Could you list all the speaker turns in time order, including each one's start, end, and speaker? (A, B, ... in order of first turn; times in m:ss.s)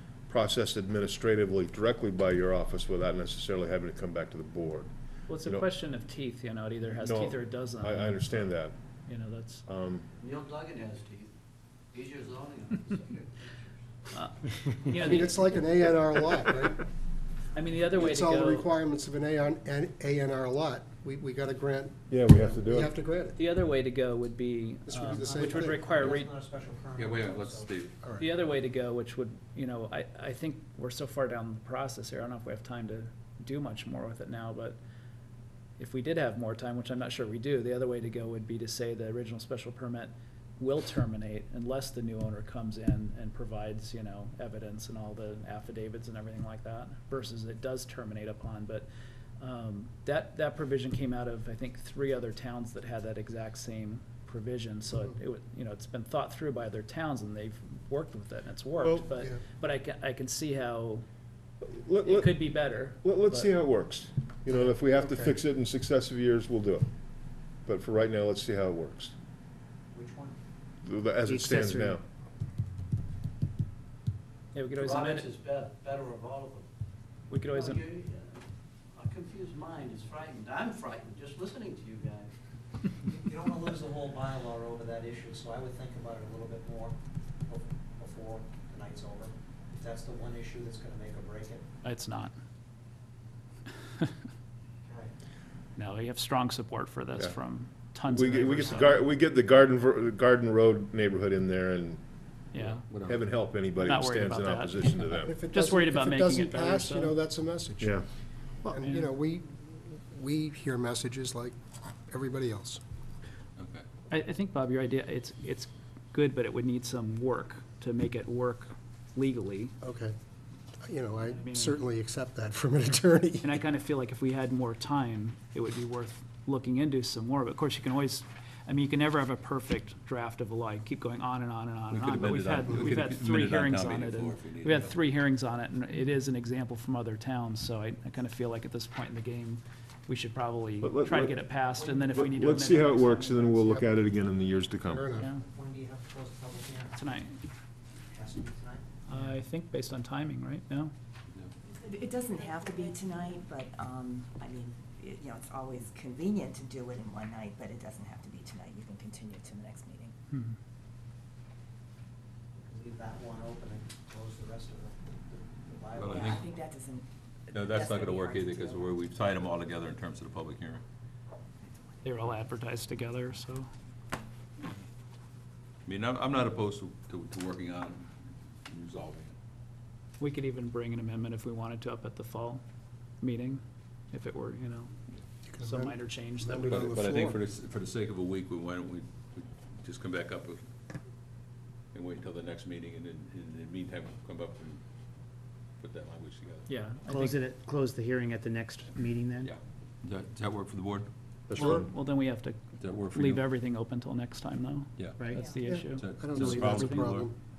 0:00.3-0:04.9 A
0:05.3-0:09.6 B
0:07.0-0:08.8 A
0:09.7-0:10.0 A
0:10.2-0:11.4 C
0:11.9-0:13.6 C
0:14.1-0:15.4 B
0:14.9-0:16.8 D
0:17.5-0:18.7 B
0:17.9-0:23.4 D
0:22.1-0:22.9 A
0:23.4-0:26.3 B
0:24.9-0:26.2 D
0:25.2-0:27.7 E
0:27.0-0:28.0 F
0:28.0-0:28.3 D
0:28.2-0:34.8 B
0:35.8-0:48.9 B
0:49.4-1:01.1 B
0:58.8-0:59.1 A
1:01.6-1:06.9 A
1:02.0-1:03.5 B
1:04.5-1:05.3 D
1:07.6-1:09.1 A
1:09.9-1:10.4 E
1:10.8-1:12.0 A
1:11.3-1:12.0 G
1:14.5-1:15.3 B
1:14.8-1:16.7 C
1:17.3-1:17.8 B
1:17.5-1:22.3 C
1:23.0-1:27.0 E
1:27.5-1:31.6 E
1:31.8-1:32.3 B
1:34.8-1:35.1 E
1:35.8-1:39.0 B
1:38.1-1:42.0 A
1:38.4-1:38.9 E
1:42.5-1:42.9 B
1:42.6-1:43.2 F
1:43.1-1:45.4 A
1:43.8-1:47.2 B
1:45.3-1:48.0 D
1:48.6-1:52.8 D
1:48.8-1:49.1 B
1:53.6-1:53.8 F
1:54.1-1:59.8 B
1:59.8-2:00.2 D
2:00.8-2:03.6 D
2:01.2-2:01.8 B
2:03.4-2:23.6 B
2:11.9-2:15.0 F
2:20.8-2:21.4 A
2:21.8-2:22.6 E
2:22.1-2:25.1 A
2:23.6-2:23.9 D
2:24.9-2:25.3 D
2:25.2-2:25.4 B
2:25.4-2:27.0 E
2:27.0-2:27.4 B
2:28.0-2:28.8 E
2:29.1-2:30.9 B
2:31.7-2:40.1 H
2:42.6-2:46.4 E
2:46.0-2:46.4 F
2:46.1-2:49.0 H
2:47.5-2:50.8 F
2:52.0-2:53.7 B
2:55.9-2:58.1 F
2:58.7-2:59.4 F
3:00.2-3:02.6 B
3:03.2-3:04.9 B
3:05.5-3:07.4 D
3:05.6-3:06.9 B
3:06.6-3:10.7 F
3:11.9-3:14.8 F
3:15.8-3:16.7 F
3:16.7-3:17.5 B
3:17.1-3:19.5 G
3:19.4-3:21.8 F
3:21.5-3:22.6 B
3:21.6-3:21.8 D
3:22.8-3:23.5 F
3:23.1-3:27.1 B
3:25.0-3:25.3 F
3:25.2-3:25.5 G
3:25.6-3:27.3 D
3:25.9-3:27.3 F